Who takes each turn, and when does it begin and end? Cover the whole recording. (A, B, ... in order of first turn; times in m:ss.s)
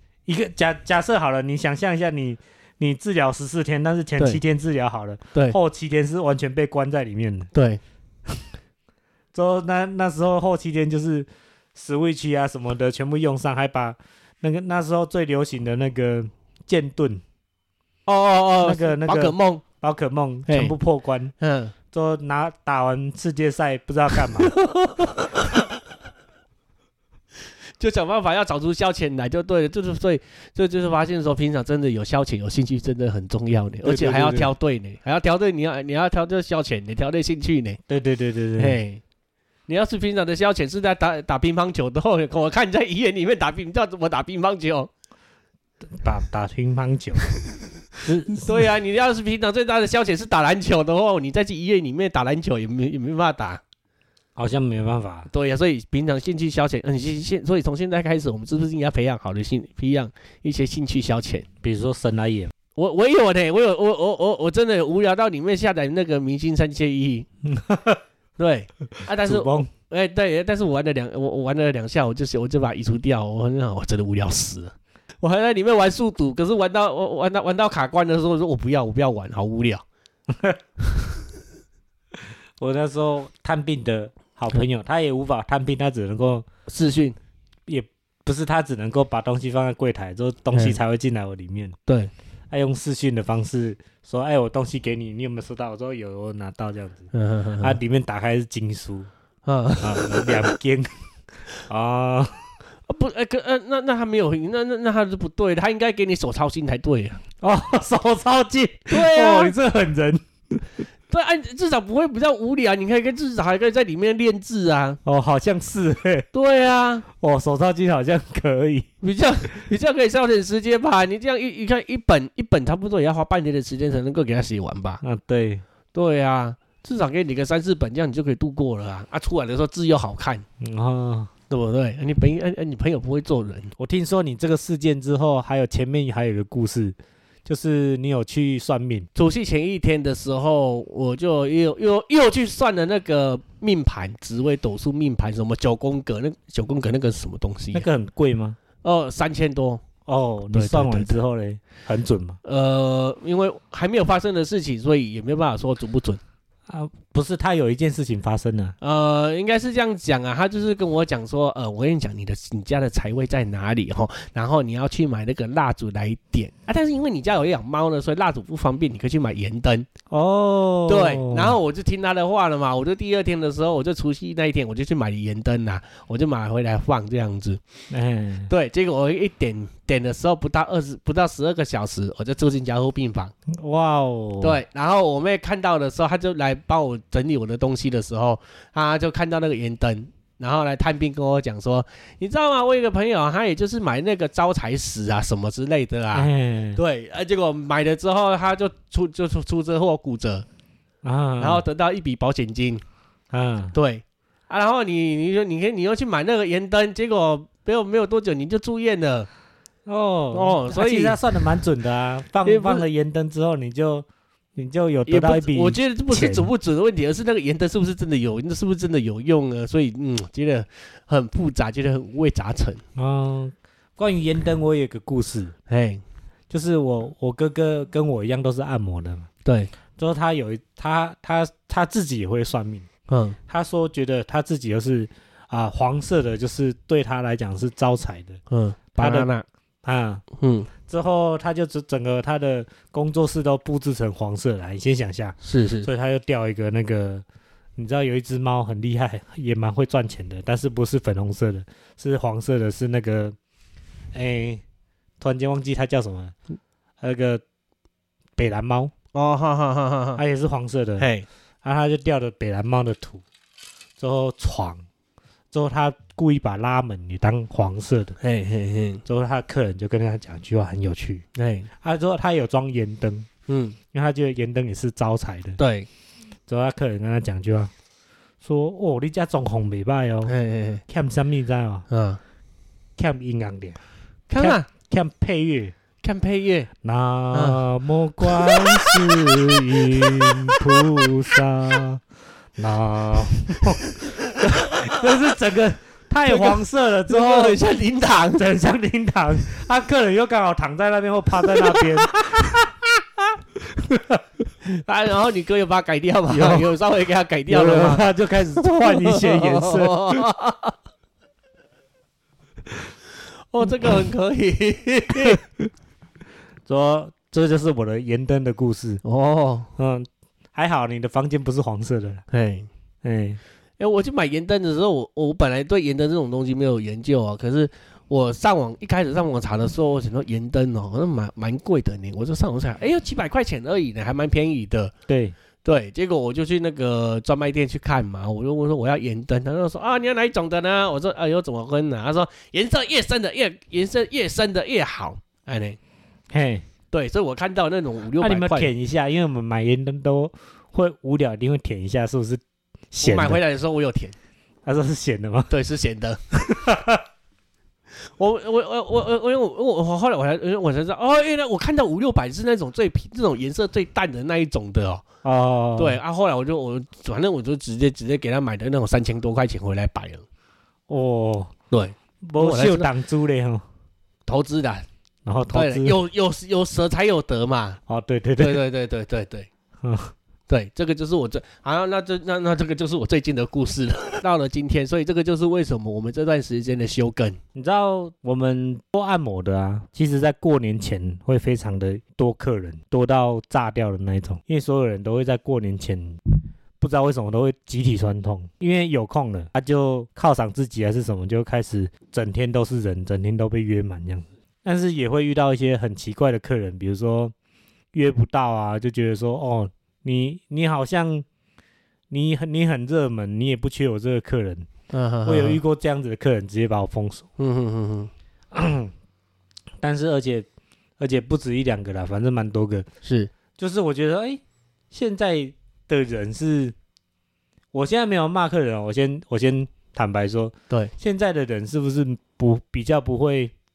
0:00.3-0:07.5 A
0:07.5-0:07.8 B
0:09.3-0:17.2 A
0:18.1-0:19.6 B
0:18.6-0:21.3 A
0:20.5-0:20.7 B
0:21.4-0:21.7 B
0:21.9-0:24.5 A
0:24.4-0:25.6 B
0:27.8-0:37.8 B
0:33.8-0:34.5 A
0:37.9-0:38.8 A
0:38.6-0:39.0 B
0:39.7-0:44.9 B
0:46.0-0:47.3 A
0:48.0-0:48.7 A
0:48.3-0:53.6 B
0:54.4-0:55.3 A
0:55.3-1:01.5 B
1:01.6-1:02.5 A
1:02.8-1:07.3 B
1:07.4-1:08.0 A
1:08.4-1:19.8 B
1:09.2-1:09.7 A
1:20.3-1:20.6 A
1:22.6-1:26.5 A
1:26.7-1:27.2 B
1:27.7-1:31.8 A
1:32.5-1:37.1 A
1:37.1-1:37.8 B
1:37.6-1:39.1 A
1:39.5-1:40.5 B
1:39.8-1:40.9 A
1:41.7-1:42.5 A
1:42.9-1:47.2 B
1:47.4-1:50.6 A
1:48.9-1:49.5 B
1:51.1-1:55.0 B
1:55.0-1:56.3 A
1:56.3-1:57.0 B
1:57.1-1:58.9 A
1:59.0-2:05.0 B
2:05.0-2:05.6 A
2:05.9-2:10.4 B
2:10.6-2:11.3 A
2:11.5-2:13.7 B
2:13.8-2:19.1 A
2:19.2-2:27.8 B
2:27.7-2:28.6 A
2:28.8-2:29.8 B
2:30.1-2:32.4 A
2:30.5-2:31.2 B
2:32.4-2:36.2 B
2:36.7-2:38.8 A
2:38.8-2:49.9 B
2:50.1-2:51.6 A
2:50.9-2:57.6 B
2:57.9-2:58.5 A
2:58.5-3:03.3 B
3:03.5-3:04.6 A
3:04.4-3:20.5 B
3:16.1-3:16.8 A
3:21.0-3:21.6 A
3:21.4-3:22.8 B
3:23.3-3:23.8 A
3:23.7-3:29.3 B
3:29.9-3:36.5 A
3:30.3-3:31.2 B
3:32.4-3:32.8 B
3:35.1-3:42.8 B
3:43.0-3:45.6 A
3:45.7-3:46.0 B
3:46.5-3:49.3 A
3:49.4-3:49.7 B
3:50.0-3:52.9 A
3:53.1-3:53.4 B
3:53.5-3:58.4 A
3:58.5-3:59.4 B
3:59.0-3:59.3 A
3:59.8-4:00.2 A
4:00.4-4:00.7 B
4:00.8-4:07.2 A
4:05.4-4:05.9 B
4:07.8-4:13.4 A
4:14.1-4:14.6 A
4:15.2-4:16.4 A
4:17.0-4:17.4 A
4:18.4-4:18.9 A
4:19.1-4:20.2 B
4:20.2-4:21.1 A
4:21.0-4:21.3 B
4:21.6-4:23.2 A
4:24.0-4:24.8 A
4:25.5-4:28.2 A
4:28.2-4:29.0 B
4:29.1-4:31.2 A
4:31.4-4:31.7 B
4:31.8-4:33.3 A
4:33.5-4:33.8 B
4:33.9-4:35.6 A
4:35.6-4:35.9 B
4:36.5-4:37.7 A
4:38.4-4:40.3 A
4:40.3-4:40.8 B
4:40.9-4:41.9 A
4:41.9-4:42.2 B
4:43.0-4:43.8 A
4:44.3-4:44.7 B
4:44.4-4:45.7 A
4:46.0-4:46.7 B
4:46.8-4:52.0 A
4:47.3-4:47.6 B
4:48.2-4:51.0 B
4:52.6-4:57.6 A
4:54.7-4:55.0 B
4:56.3-4:58.5 B
4:58.4-5:02.6 A
5:01.4-5:02.7 B
5:03.6-5:04.2 A
5:04.6-5:10.8 B
5:06.3-5:06.7 A
5:07.5-5:10.2 A
5:13.5-5:15.4 B
5:16.7-5:19.0 A
5:19.0-5:19.7 B
5:19.8-5:22.2 A
5:22.3-5:22.7 B
5:23.0-5:23.4 A
5:23.8-5:34.9 B
5:35.1-5:35.4 A
5:35.6-5:45.8 B
5:46.3-5:46.6 A
5:46.9-5:48.7 B
5:48.2-5:53.4 A
5:53.0-5:54.2 B
5:54.6-5:55.5 A
5:55.5-5:56.2 B
5:56.3-5:57.0 A
5:58.0-6:05.0 B
6:05.2-6:06.0 A
6:05.8-6:10.2 B
6:10.9-6:11.5 A
6:11.7-6:12.9 B
6:12.3-6:13.6 A
6:14.3-6:14.9 B
6:15.3-6:16.0 A
6:15.5-6:17.8 B
6:17.9-6:18.6 A
6:18.4-6:19.5 B
6:19.8-6:20.1 A
6:20.5-6:27.4 B
6:27.6-6:36.2 A
6:36.8-6:47.3 A
6:47.9-6:51.2 A
6:52.1-6:54.7 A
6:54.9-6:55.6 B
6:55.2-6:57.3 A
6:57.4-6:58.1 B
6:58.5-6:58.9 A
6:59.8-7:00.5 A
7:01.0-7:02.9 A
7:03.0-7:03.3 B
7:03.6-7:06.8 A
7:07.7-7:13.5 A